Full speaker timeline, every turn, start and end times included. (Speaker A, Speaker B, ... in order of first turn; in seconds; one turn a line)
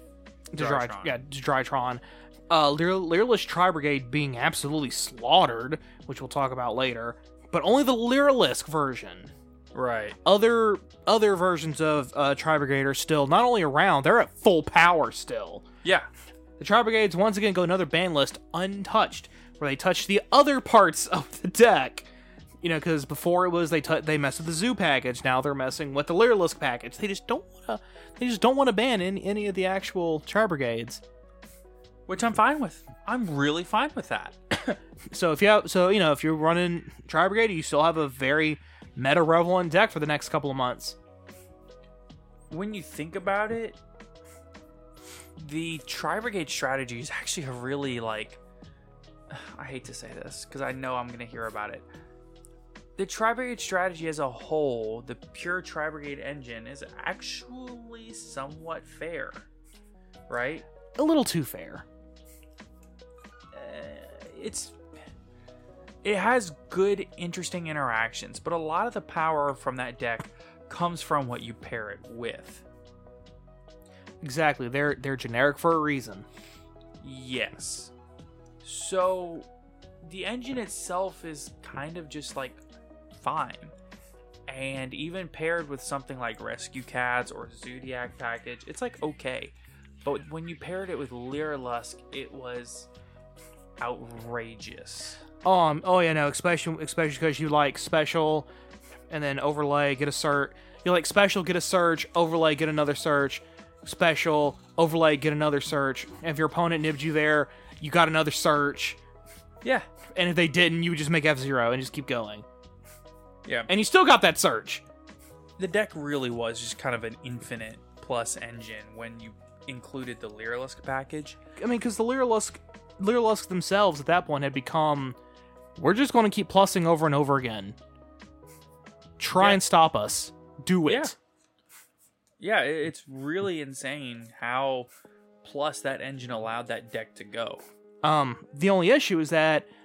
Speaker A: 0.5-9.3
Speaker B: 0.6-1.2
Speaker B: 9.8-10.2
Speaker A: 10.2-15.7
Speaker A: 16.6-22.1
Speaker A: 22.6-31.0
Speaker B: 32.1-34.4
Speaker A: 34.7-41.0
Speaker B: 42.5-43.8
Speaker B: 45.4-48.4
Speaker B: 49.3-51.9
Speaker B: 53.0-59.4
Speaker B: 60.3-60.6
Speaker A: 61.0-61.9
Speaker B: 63.5-64.8
Speaker B: 66.0-72.6
Speaker A: 74.2-76.3
Speaker B: 77.0-77.9
Speaker B: 78.6-79.5
Speaker B: 80.0-82.6
Speaker B: 83.2-83.7
Speaker B: 84.5-92.9
Speaker B: 93.8-95.2
Speaker A: 95.4-98.5
Speaker A: 99.1-109.0
Speaker A: 110.2-112.5
Speaker A: 113.7-114.8
Speaker B: 115.6-121.4
Speaker A: 121.6-125.2
Speaker A: 125.8-127.8
Speaker A: 129.2-131.1
Speaker B: 130.9-131.1
Speaker B: 132.4-134.9
Speaker B: 135.4-137.6
Speaker A: 138.0-139.7